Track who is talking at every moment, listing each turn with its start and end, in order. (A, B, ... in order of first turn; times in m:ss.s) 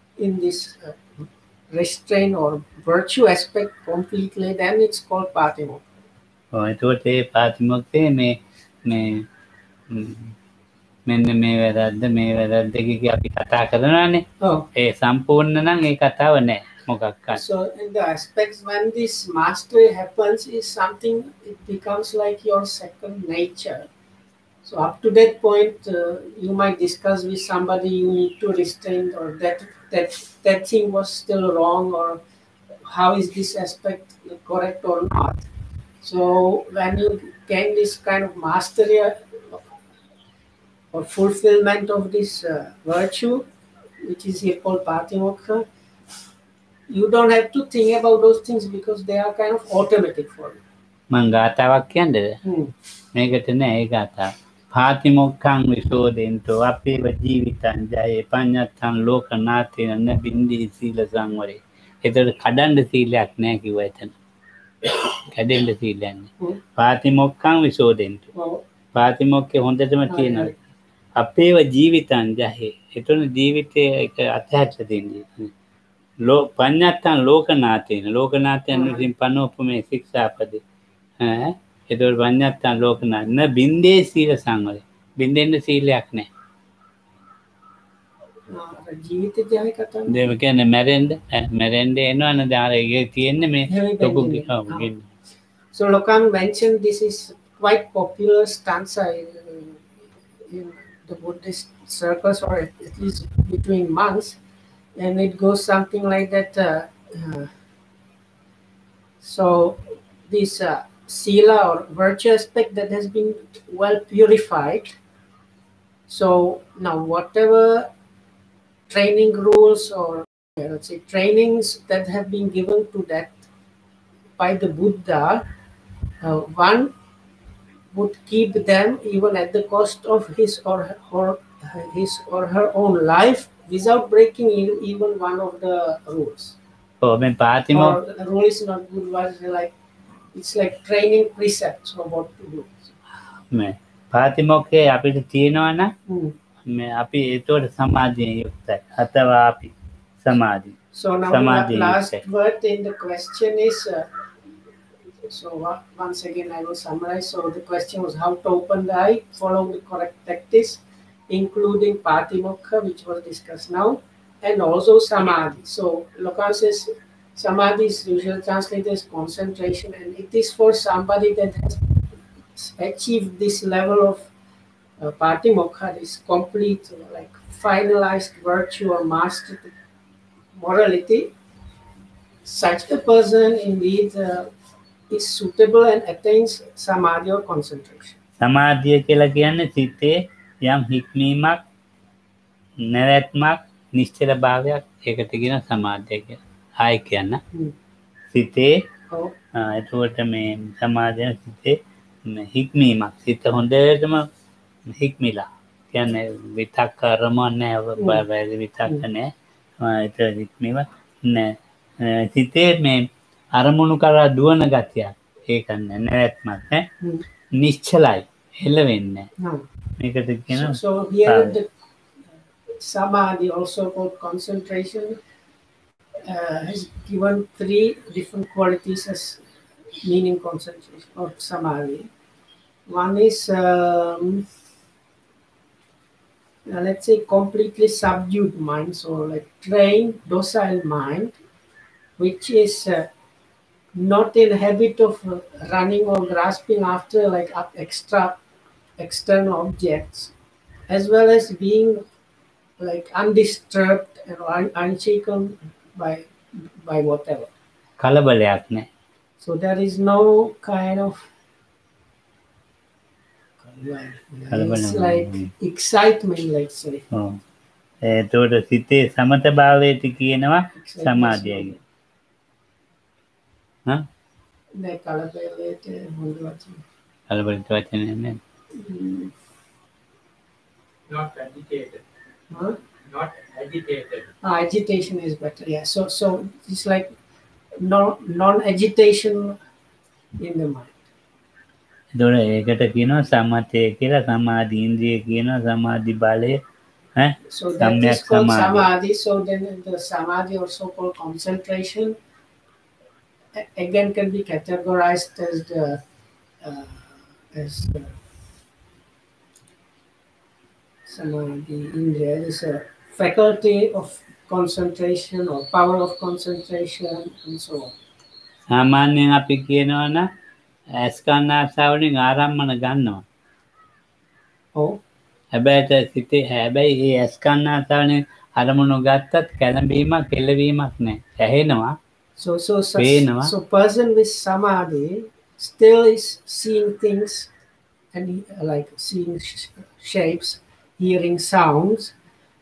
0:00.2-0:05.8 A
0:06.5-0:09.2 B
0:09.9-0:10.3 B
0:11.0-0:17.4 B
0:14.4-0:14.7 A
0:17.3-0:23.9 A
0:24.6-0:32.2 A
0:32.8-0:35.4 A
0:36.0-0:39.7 A
0:40.9-0:43.4 A
0:44.0-0:45.7 A
0:46.9-0:50.6 A
0:51.1-0:52.4 B
0:52.4-0:52.7 A
0:53.1-1:04.1 B
1:04.8-1:08.3 B
1:08.3-1:08.6 A
1:08.9-1:10.5 B
1:10.1-1:10.6 A
1:11.2-1:15.5 B
1:16.2-1:20.6 B
1:18.7-1:19.1 A
1:21.2-1:26.3 B
1:28.5-1:30.3 A
1:30.1-1:35.1 B
1:33.7-1:34.9 A
1:35.7-1:39.8 A
1:40.4-1:44.4 A
1:45.0-1:47.5 A
1:49.2-1:55.0 A
1:56.1-1:57.9 A
1:58.9-2:03.4 A
2:04.4-2:05.4 A
2:06.2-2:06.9 A
2:07.9-2:16.6 A
2:17.0-2:18.0 B
2:17.7-2:19.7 A
2:20.3-2:22.9 A
2:23.4-2:25.9 B
2:26.1-2:26.4 A
2:26.6-2:30.8 B
2:30.9-2:34.1 A
2:31.3-2:32.2 B
2:35.3-2:54.3 A
2:55.0-2:59.7 A
3:00.5-3:01.3 A
3:02.4-3:04.5 A
3:05.1-3:08.2 A
3:08.4-3:11.6 B
3:12.8-3:17.4 B
3:18.3-3:18.8 B
3:19.1-3:19.3 A
3:19.5-3:24.3 B
3:24.8-3:36.9 B
3:28.0-3:28.2 A
3:37.5-3:39.3 B
3:39.4-3:39.6 A
3:40.0-3:41.5 B
3:40.5-3:41.7 A
3:42.7-3:45.2 A
3:46.2-3:49.4 A
3:50.0-3:52.1 A
3:52.9-3:54.5 A
3:56.6-4:01.3 A
4:02.2-4:03.1 A
4:03.9-4:08.4 A
4:09.0-4:10.3 A
4:10.9-4:12.0 A
4:12.8-4:17.5 A
4:18.0-4:18.9 B
4:19.4-4:21.3 A
4:23.6-4:27.0 A
4:24.5-4:25.5 B
4:27.1-4:27.4 B
4:28.0-4:31.8 B
4:30.8-4:31.8 A
4:34.8-4:36.8 A
4:37.3-4:38.4 B
4:38.7-4:39.3 A
4:41.1-4:42.0 C
4:42.5-4:42.8 A
4:43.0-4:44.3 C
4:44.4-4:47.1 A
4:47.8-4:49.6 A
4:50.4-4:51.1 A
4:52.1-4:56.6 B
4:57.2-4:58.9 B
4:57.5-5:02.2 A
5:03.5-5:06.0 A
5:06.6-5:08.2 A
5:11.0-5:18.0 A
5:18.7-5:20.3 B
5:20.9-5:23.2 B
5:24.7-5:25.0 A
5:25.5-5:32.0 B
5:32.4-5:37.5 A
5:33.0-5:33.5 B
5:38.1-5:42.1 A